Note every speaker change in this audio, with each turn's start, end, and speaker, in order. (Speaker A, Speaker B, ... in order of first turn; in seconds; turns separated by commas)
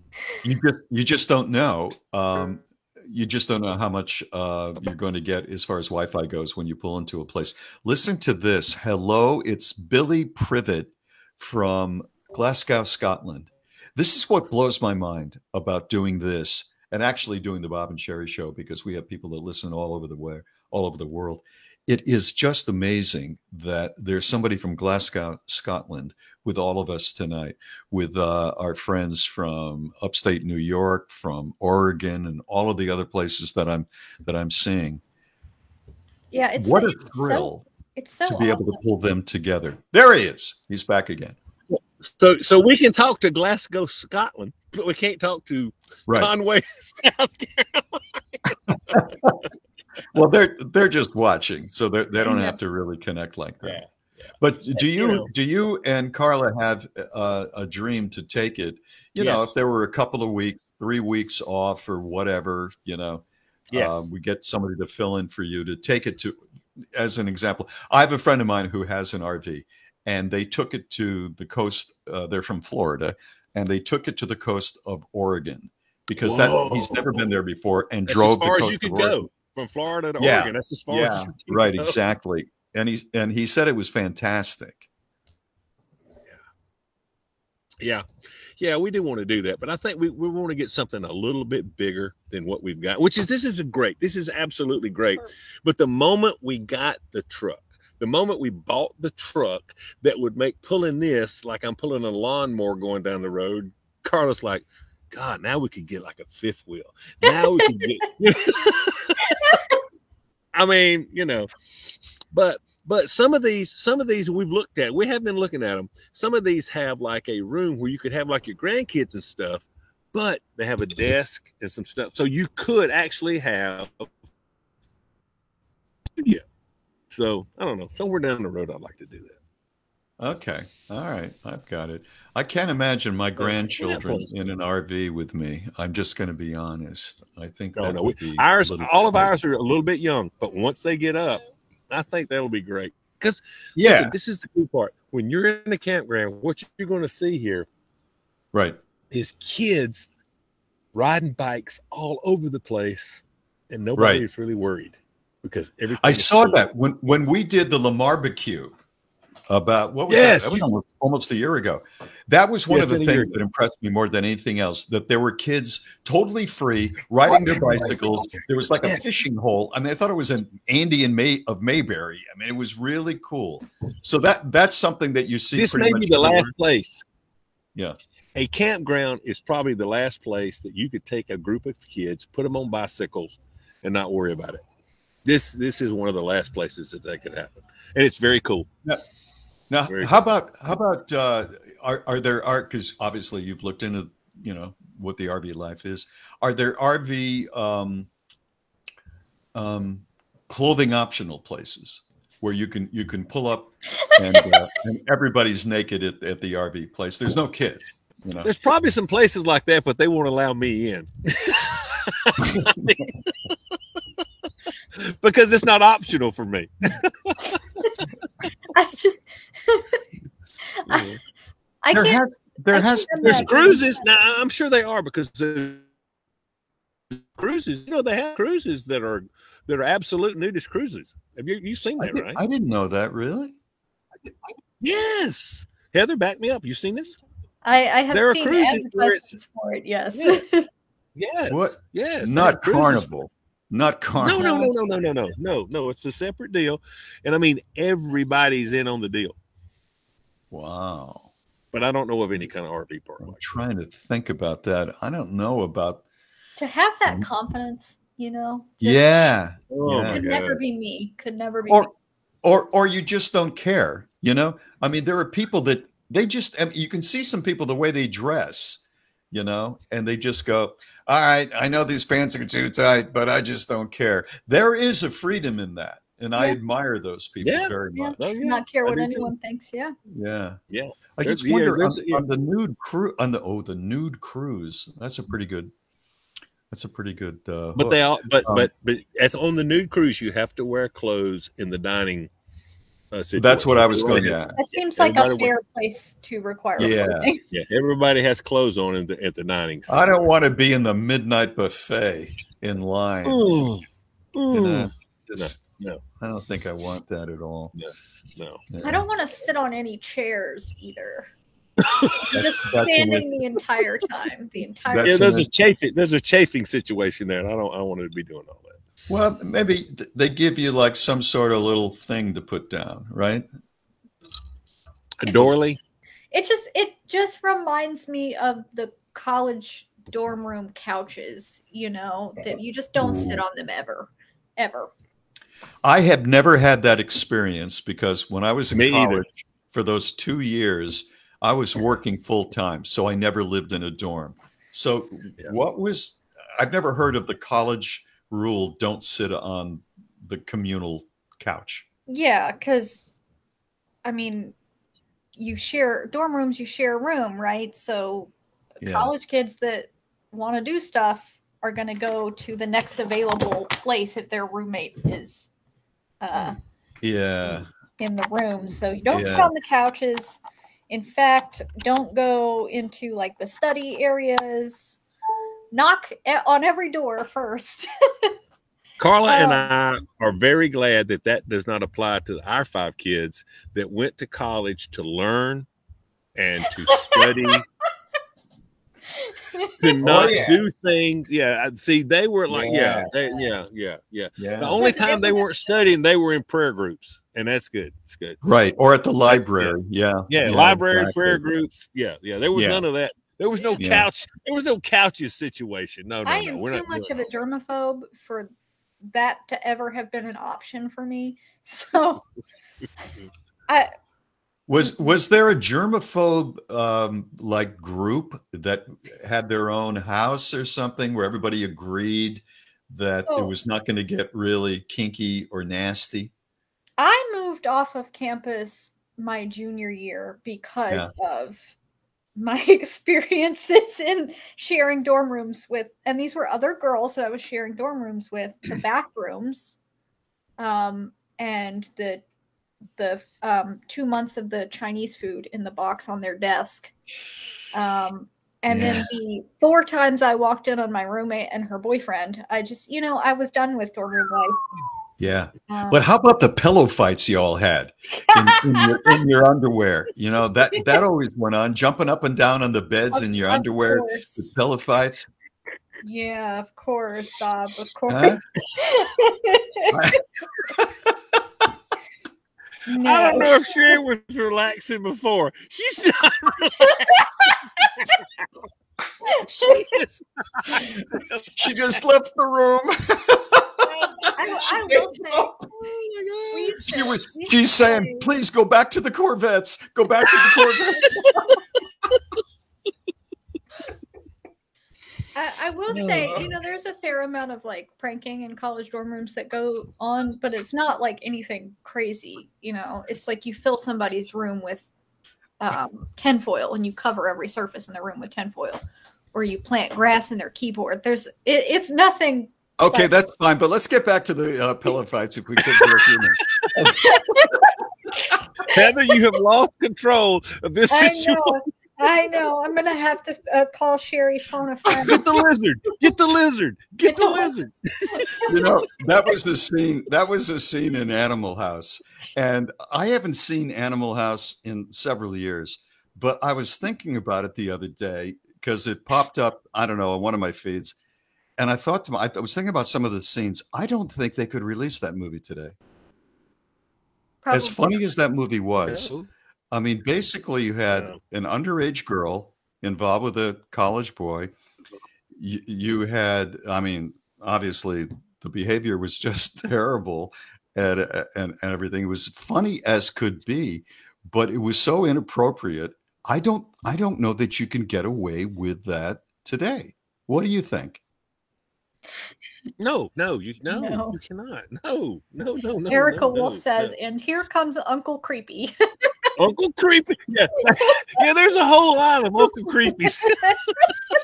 Speaker A: 0.4-35.0, Speaker B: 36.3-38.8, Speaker A: 36.6-37.6, Speaker A: 38.3-41.4, Speaker C: 41.7-49.1, Speaker A: 48.9-49.4, Speaker A: 50.1-53.8, Speaker B: 52.2-52.6, Speaker C: 53.6-55.3, Speaker A: 54.4-66.4, Speaker C: 59.2-59.5, Speaker C: 63.7-64.1, Speaker A: 67.0-79.3, Speaker C: 76.2-77.3, Speaker C: 78.1-82.0, Speaker A: 80.2-84.9, Speaker C: 88.6-109.6, Speaker C: 110.5-111.5, Speaker C: 112.3-124.1, Speaker C: 126.2-126.4, Speaker C: 127.1-129.4, Speaker A: 130.2-139.3, Speaker C: 133.4-134.3, Speaker C: 137.8-147.7, Speaker A: 143.8-144.1, Speaker A: 148.5-148.8, Speaker C: 149.1-150.1, Speaker C: 150.9-156.7, Speaker A: 154.0-154.2, Speaker A: 156.0-158.8, Speaker A: 159.5-176.5, Speaker C: 160.1-160.7, Speaker C: 162.7-163.4, Speaker C: 167.3-169.1, Speaker C: 175.6-177.1, Speaker C: 178.3-184.6, Speaker C: 185.2-188.7, Speaker A: 189.7-198.1, Speaker C: 189.9-190.2, Speaker A: 199.6-208.5, Speaker B: 204.2-204.5, Speaker C: 208.4-213.6, Speaker A: 212.6-212.8, Speaker C: 214.9-217.6, Speaker B: 218.7-220.0, Speaker B: 220.8-221.1, Speaker C: 220.9-221.2, Speaker B: 221.8-224.1, Speaker A: 221.9-223.8, Speaker C: 223.2-225.8, Speaker C: 227.4-232.4, Speaker A: 232.0-233.6, Speaker C: 234.8-237.2, Speaker B: 237.6-240.7, Speaker C: 238.1-239.4, Speaker C: 240.1-240.6, Speaker C: 241.2-243.1, Speaker A: 241.5-244.7, Speaker C: 244.2-249.4, Speaker B: 244.2-244.7, Speaker A: 250.5-251.3, Speaker C: 251.7-253.6, Speaker A: 253.2-256.0, Speaker B: 256.6-259.3, Speaker A: 258.8-260.3, Speaker C: 259.7-260.6, Speaker B: 260.1-261.9, Speaker A: 262.4-278.2, Speaker C: 277.4-279.3, Speaker B: 277.9-279.9, Speaker A: 280.1-280.6, Speaker C: 280.7-282.2, Speaker A: 281.2-285.7, Speaker A: 286.7-288.7, Speaker C: 287.8-292.3, Speaker C: 293.1-295.5, Speaker A: 293.4-294.6, Speaker B: 294.6-297.4, Speaker A: 296.8-297.3, Speaker C: 297.5-300.3, Speaker A: 299.9-303.5, Speaker C: 303.2-306.0, Speaker A: 304.5-305.7, Speaker A: 306.2-307.7, Speaker C: 307.8-308.6, Speaker A: 308.7-309.1, Speaker B: 308.8-311.3, Speaker C: 311.8-312.4, Speaker B: 312.1-315.4, Speaker A: 312.3-313.3, Speaker A: 314.9-315.5, Speaker C: 315.0-318.8, Speaker A: 319.1-323.5, Speaker C: 325.2-325.8, Speaker B: 326.3-334.9, Speaker A: 333.0-333.4, Speaker A: 335.8-351.9, Speaker C: 338.8-339.3, Speaker B: 352.1-353.1, Speaker B: 354.0-354.6, Speaker B: 355.4-365.5, Speaker A: 358.8-359.1, Speaker B: 366.2-366.6, Speaker A: 366.4-367.7, Speaker B: 368.0-375.0, Speaker A: 369.1-369.5, Speaker B: 375.7-378.3, Speaker C: 379.0-385.7, Speaker B: 379.3-379.7, Speaker C: 386.4-387.6, Speaker B: 386.9-387.3, Speaker B: 389.2-389.7, Speaker C: 389.8-398.5, Speaker A: 390.0-390.6, Speaker A: 392.5-393.1, Speaker A: 394.4-394.9, Speaker B: 394.8-395.4, Speaker A: 398.4-401.4, Speaker C: 399.3-399.8, Speaker C: 400.3-407.2, Speaker A: 402.5-402.8, Speaker A: 403.8-404.1, Speaker B: 406.3-408.5, Speaker B: 409.1-412.2, Speaker A: 414.7-426.3, Speaker B: 414.8-415.1, Speaker B: 427.0-431.7, Speaker B: 432.4-439.8, Speaker B: 440.6-442.2, Speaker B: 443.0-446.9, Speaker B: 447.7-454.6, Speaker A: 448.7-449.1, Speaker A: 455.2-465.3, Speaker B: 455.7-456.0, Speaker B: 458.3-459.2, Speaker B: 463.1-464.6, Speaker B: 466.0-470.2, Speaker A: 468.1-468.4, Speaker A: 469.9-470.2, Speaker B: 472.9-473.7, Speaker C: 473.0-477.3, Speaker B: 479.3-480.0, Speaker C: 479.6-481.5, Speaker A: 481.6-483.9, Speaker C: 483.9-484.6, Speaker B: 484.3-485.6, Speaker A: 484.4-485.4, Speaker C: 485.8-486.8, Speaker B: 486.5-488.3, Speaker A: 486.8-491.2, Speaker B: 495.4-504.9, Speaker C: 495.9-496.5, Speaker B: 505.6-508.8, Speaker B: 509.3-513.1, Speaker A: 512.8-517.2, Speaker B: 517.0-517.6, Speaker C: 518.7-521.6, Speaker B: 520.9-525.3, Speaker C: 524.9-528.3, Speaker B: 527.0-527.5, Speaker B: 528.1-528.6, Speaker A: 528.5-541.0, Speaker A: 541.6-545.8, Speaker B: 547.4-548.0, Speaker A: 547.5-549.1, Speaker C: 548.8-549.3, Speaker A: 549.7-554.5, Speaker A: 555.4-571.0, Speaker C: 572.8-576.9, Speaker B: 573.7-574.2, Speaker B: 575.9-579.1, Speaker C: 579.4-583.6